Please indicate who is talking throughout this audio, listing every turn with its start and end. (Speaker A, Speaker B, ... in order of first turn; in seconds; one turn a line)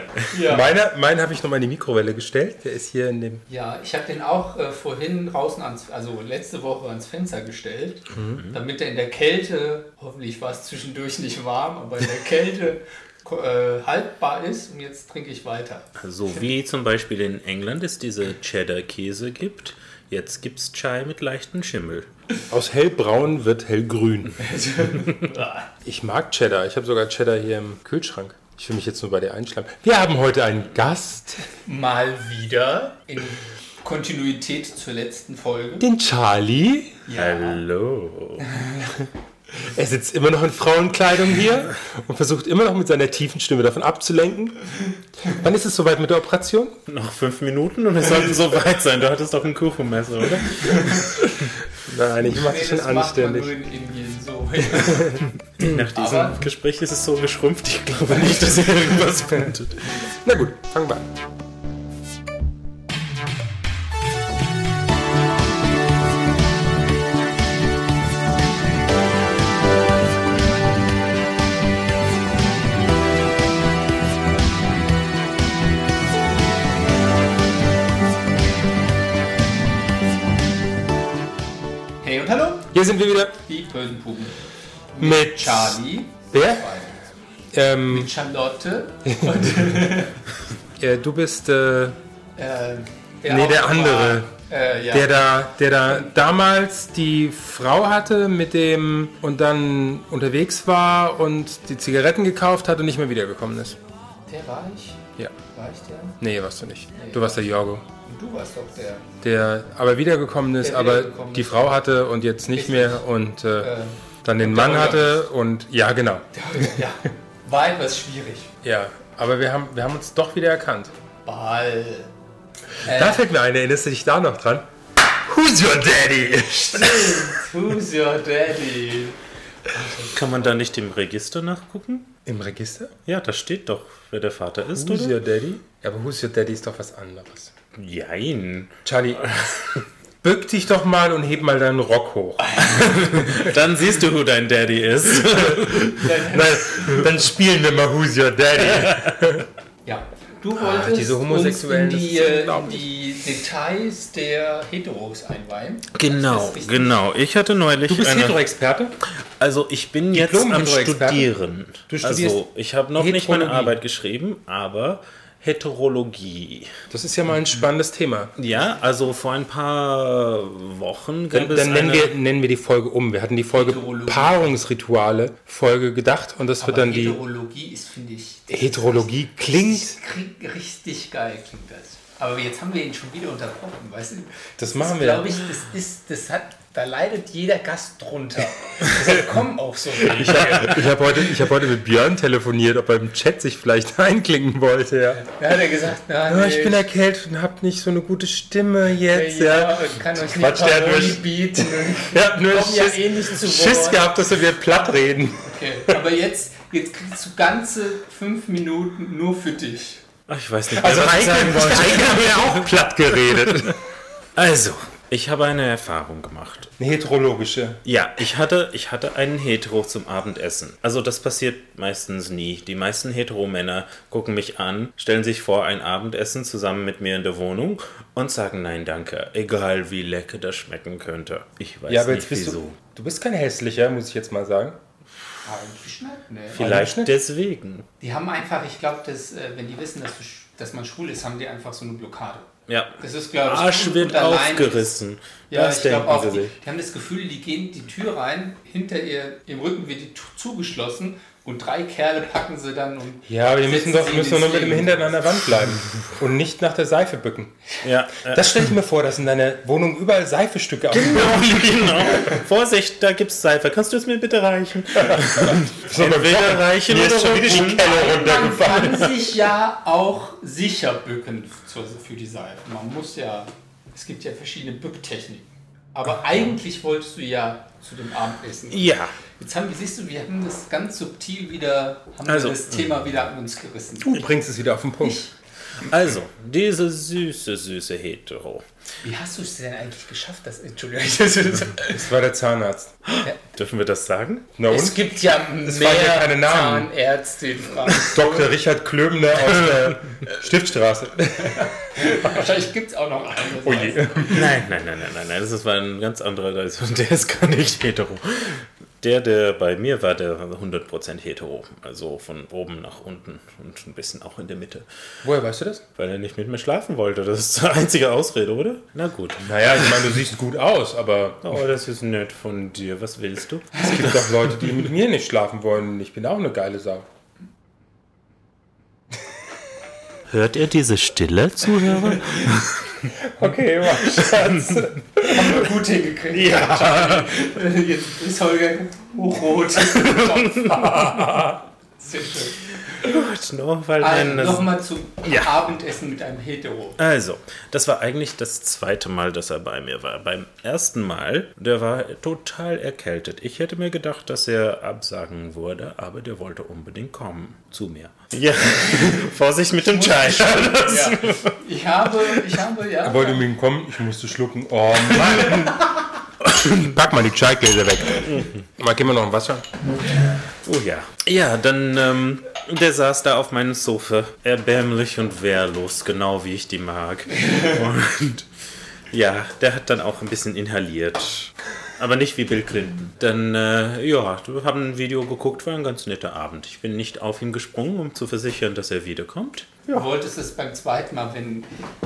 Speaker A: 0.3-0.7
Speaker B: 0.3-3.4
Speaker A: 3.5-16.4
Speaker B: 8.1-8.4
Speaker C: 16.0-22.1
Speaker B: 22.5-24.4
Speaker A: 24.4-25.7
Speaker B: 25.8-31.5
Speaker A: 31.6-35.9
Speaker B: 35.8-37.0
Speaker A: 37.1-37.6
Speaker C: 37.1-38.6
Speaker B: 39.6-44.6
Speaker B: 45.2-46.8
Speaker C: 46.9-51.5
Speaker B: 51.8-53.5
Speaker A: 52.2-55.2
Speaker B: 54.8-55.8
Speaker C: 55.5-60.0
Speaker A: 55.9-56.4
Speaker B: 60.0-61.1
Speaker A: 82.0-82.7
Speaker B: 82.7-83.3
Speaker A: 83.4-84.4
Speaker A: 84.9-87.0
Speaker B: 85.0-85.8
Speaker B: 86.3-86.7
Speaker B: 87.5-88.1
Speaker A: 87.9-90.2
Speaker B: 89.0-89.7
Speaker B: 90.8-92.0
Speaker A: 92.4-95.1
Speaker B: 93.2-94.3
Speaker B: 94.9-103.8
Speaker A: 104.3-106.2
Speaker B: 106.2-107.8
Speaker A: 107.0-107.3
Speaker A: 108.0-109.0
Speaker B: 109.2-116.8
Speaker A: 110.6-111.8
Speaker A: 112.5-113.0
Speaker A: 113.6-115.2
Speaker A: 116.3-118.5
Speaker B: 118.6-120.9
Speaker A: 121.2-122.1
Speaker A: 122.8-123.2
Speaker B: 122.8-124.7
Speaker B: 125.2-127.4
Speaker A: 126.7-130.2
Speaker C: 130.1-132.1
Speaker B: 132.2-132.9
Speaker C: 133.1-135.2
Speaker B: 134.7-137.5
Speaker C: 137.8-139.8
Speaker B: 138.8-139.3
Speaker B: 140.2-143.5
Speaker C: 142.6-146.0
Speaker B: 145.2-149.4
Speaker A: 145.9-147.1
Speaker C: 148.7-149.1
Speaker A: 149.8-156.9
Speaker B: 150.6-152.9
Speaker C: 155.9-158.4
Speaker B: 157.9-158.9
Speaker C: 159.4-166.8
Speaker B: 160.1-161.3
Speaker B: 161.9-162.4
Speaker B: 162.9-163.7
Speaker B: 166.9-168.3
Speaker C: 168.4-172.1
Speaker B: 171.3-177.2
Speaker A: 173.5-174.5
Speaker A: 176.6-191.2
Speaker B: 178.5-179.9
Speaker B: 184.6-185.3
Speaker B: 190.1-195.2
Speaker A: 195.2-196.8
Speaker B: 196.3-206.0
Speaker A: 199.1-204.1
Speaker A: 205.4-210.0
Speaker C: 210.3-213.7
Speaker B: 210.7-213.8
Speaker C: 214.3-216.7
Speaker B: 216.8-217.8
Speaker C: 217.8-232.8
Speaker B: 231.9-234.8
Speaker A: 235.4-236.7
Speaker B: 236.5-237.1
Speaker C: 236.5-237.9
Speaker A: 238.0-242.5
Speaker C: 242.7-246.5
Speaker A: 243.0-244.9
Speaker A: 245.5-255.2
Speaker B: 253.2-257.6
Speaker C: 257.8-258.6
Speaker B: 258.2-262.1
Speaker C: 260.9-269.1
Speaker B: 265.0-269.0
Speaker A: 267.8-284.2
Speaker C: 278.7-279.1
Speaker C: 282.3-282.6
Speaker B: 284.0-285.2
Speaker A: 285.0-285.3
Speaker C: 285.8-288.6
Speaker A: 289.0-292.0
Speaker B: 291.9-292.9
Speaker C: 293.5-294.5
Speaker B: 294.6-296.9
Speaker A: 294.7-298.5
Speaker B: 298.0-302.2
Speaker A: 301.4-304.3
Speaker B: 303.6-304.5
Speaker C: 304.2-314.9
Speaker B: 315.2-315.8
Speaker C: 316.0-320.0
Speaker B: 319.4-321.6
Speaker C: 321.4-324.7
Speaker B: 323.8-327.1
Speaker C: 330.3-333.1
Speaker A: 332.2-332.5
Speaker B: 333.2-335.6
Speaker C: 333.9-335.6
Speaker A: 335.2-343.1
Speaker C: 336.3-337.3
Speaker C: 339.8-341.6
Speaker C: 342.8-345.6
Speaker A: 344.0-347.0
Speaker C: 347.0-361.6
Speaker A: 359.9-363.4
Speaker C: 362.2-362.6
Speaker B: 363.0-365.9
Speaker C: 366.5-366.8
Speaker B: 366.6-369.7
Speaker C: 368.3-368.6
Speaker C: 370.6-378.5
Speaker C: 379.1-390.1
Speaker A: 389.9-391.7